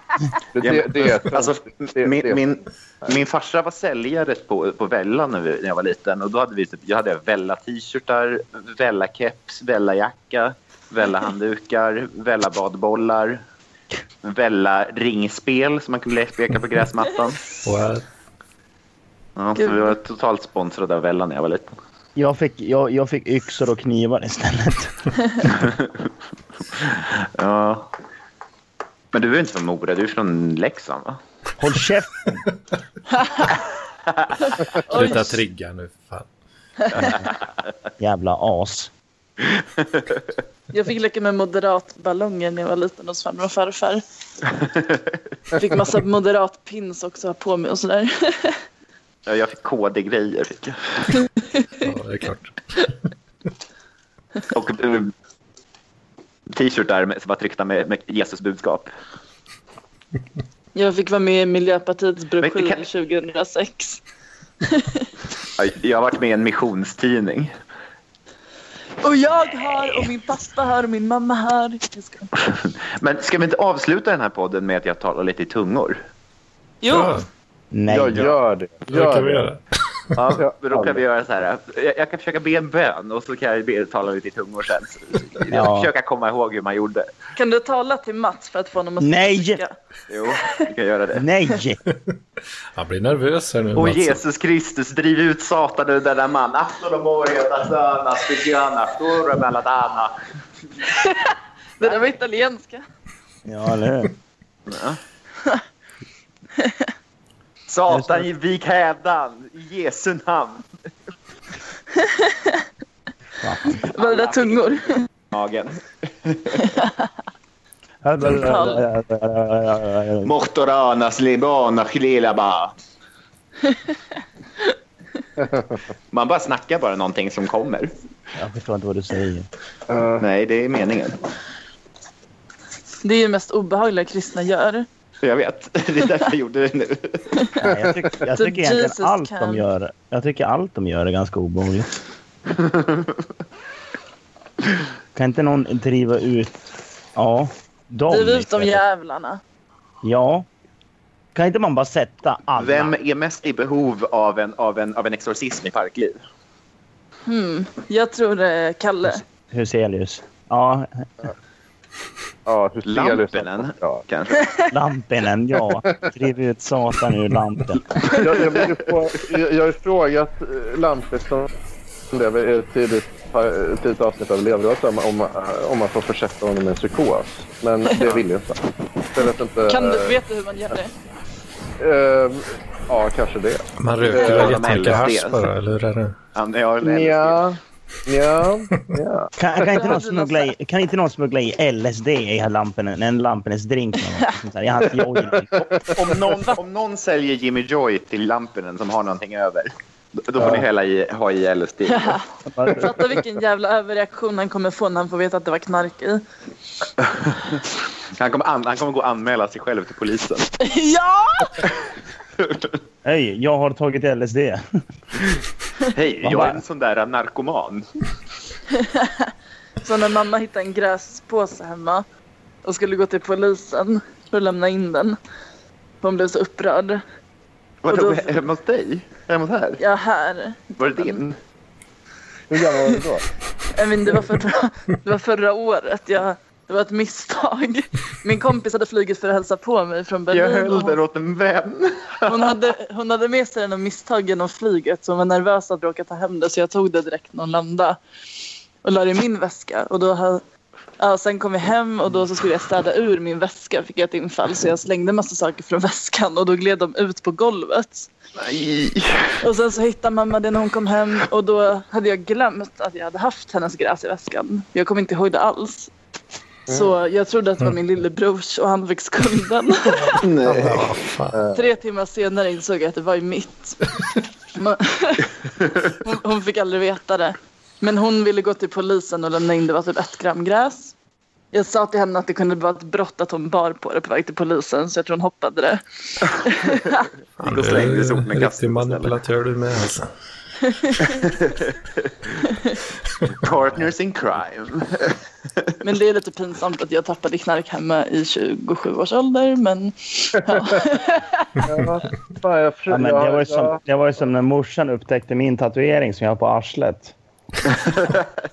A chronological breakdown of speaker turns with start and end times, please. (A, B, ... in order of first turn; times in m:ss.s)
0:00.6-0:02.4 A
0:00.6-0:13.4 B
0:14.2-0:17.6 B
0:17.6-0:18.1 C
0:19.4-0:21.7 B
0:19.6-0:20.0 D
0:22.2-0:25.1 E
0:25.5-0:26.1 B
0:26.7-0:27.9 B
0:29.1-0:31.2 B
0:31.6-0:32.4 E
0:33.1-0:33.6 D
0:34.1-0:34.3 B
0:34.5-0:35.4 D
0:34.8-0:36.3 C
0:37.0-0:37.3 B
0:38.0-0:38.9 E
0:39.5-0:40.2 B
0:40.7-0:44.0 D
0:44.6-0:45.1 B
0:45.5-0:48.6 D
0:49.3-0:51.2 B
0:51.8-0:52.9 C
0:54.5-0:55.1 B
0:56.5-0:58.9 B
1:00.7-1:04.0 D
1:02.4-1:02.8 B
1:04.6-1:05.1 D
1:05.6-1:07.5 B
1:09.0-1:12.3 D
1:12.4-1:16.0 B
1:16.8-1:17.2 D
1:16.9-1:17.3 C
1:17.7-1:18.3 E
1:17.9-1:19.5 A
1:18.9-1:19.6 C
1:20.2-1:27.1 B
1:20.3-1:21.0 A
1:25.5-1:25.9 E
1:27.4-1:29.7 D
1:29.0-1:29.6 E
1:30.1-1:31.3 B
1:30.4-1:30.6 D
1:31.2-1:31.8 E
1:32.7-1:34.2 C
1:33.7-1:40.1 B
1:40.9-1:42.8 D
1:43.4-1:44.1 E
1:44.7-1:45.0 B
1:47.7-1:50.7 B
1:47.9-1:48.3 E
1:52.0-1:52.6 D
1:53.4-1:53.8 E
1:53.7-1:56.8 B
1:53.8-1:55.0 D
1:56.8-1:57.0 D
1:58.0-2:00.3 E
1:58.4-1:58.8 D
2:00.2-2:02.7 B
2:03.6-2:04.0 D
2:05.4-2:05.7 A
2:06.1-2:07.9 B
2:08.4-2:09.5 E
2:09.9-2:10.2 A
2:10.2-2:11.2 B
2:13.0-2:14.9 D
2:15.2-2:17.4 B
2:17.6-2:21.9 E
2:17.7-2:18.0 A
2:18.3-2:19.7 D
2:22.5-2:23.2 B
2:25.1-2:28.8 E
2:28.1-2:29.4 D
2:30.0-2:30.5 E
2:31.4-2:33.0 E
2:32.6-2:36.2 B
2:37.3-2:39.2 D
2:39.5-2:41.1 E
2:42.4-2:44.0 A
2:42.8-2:44.6 B
2:44.7-2:47.8 E
2:45.8-2:46.1 A
2:48.2-2:51.5 A
2:48.4-2:48.6 B
2:52.1-2:58.6 A
2:57.9-2:58.1 D
2:59.1-3:00.2 A
2:59.7-3:00.9 D
3:01.8-3:04.8 A
3:03.8-3:06.2 C
3:04.0-3:05.5 B
3:06.3-3:07.4 B
3:06.8-3:09.3 A
3:09.4-3:15.7 E
3:09.6-3:10.5 D
3:15.3-3:16.1 A
3:15.9-3:22.2 B
3:20.4-3:20.6 A
3:21.9-3:22.2 D
3:22.5-3:23.0 E
3:22.8-3:26.2 D
3:27.0-3:27.6 B
3:28.1-3:30.5 B
3:30.6-3:31.6 D
3:32.4-3:32.7 B
3:33.0-3:34.6 E
3:35.9-3:37.8 B
3:36.2-3:36.6 E
3:38.7-3:39.3 D
3:39.8-3:42.0 D
3:42.6-3:45.2 D
3:46.0-3:47.0 D
3:47.8-3:49.8 B
3:47.9-3:48.4 D
3:49.8-3:51.2 D
3:50.8-3:51.4 B
3:52.5-3:53.2 A
3:52.6-3:52.9 D
3:53.7-4:01.0 D
4:00.3-4:02.6 B
4:02.3-4:08.0 D
4:08.8-4:10.4 D
4:11.0-4:18.1 D
4:18.4-4:19.4 B
4:19.4-4:25.9 D
4:26.7-4:30.2 D
4:30.2-4:31.4 C
4:30.2-4:30.9 B
4:31.3-4:31.6 A
4:31.5-4:33.9 D
4:34.6-4:35.3 D
4:36.0-4:40.9 D
4:41.5-4:47.1 D
4:47.4-4:50.1 C
4:47.4-4:49.2 B
4:50.7-4:51.1 D
4:51.2-4:51.8 B
4:52.5-4:52.8 D
4:53.3-4:55.7 B
4:55.8-5:01.5 D
5:01.7-5:03.8 A
5:02.9-5:07.1 E
5:07.7-5:08.3 B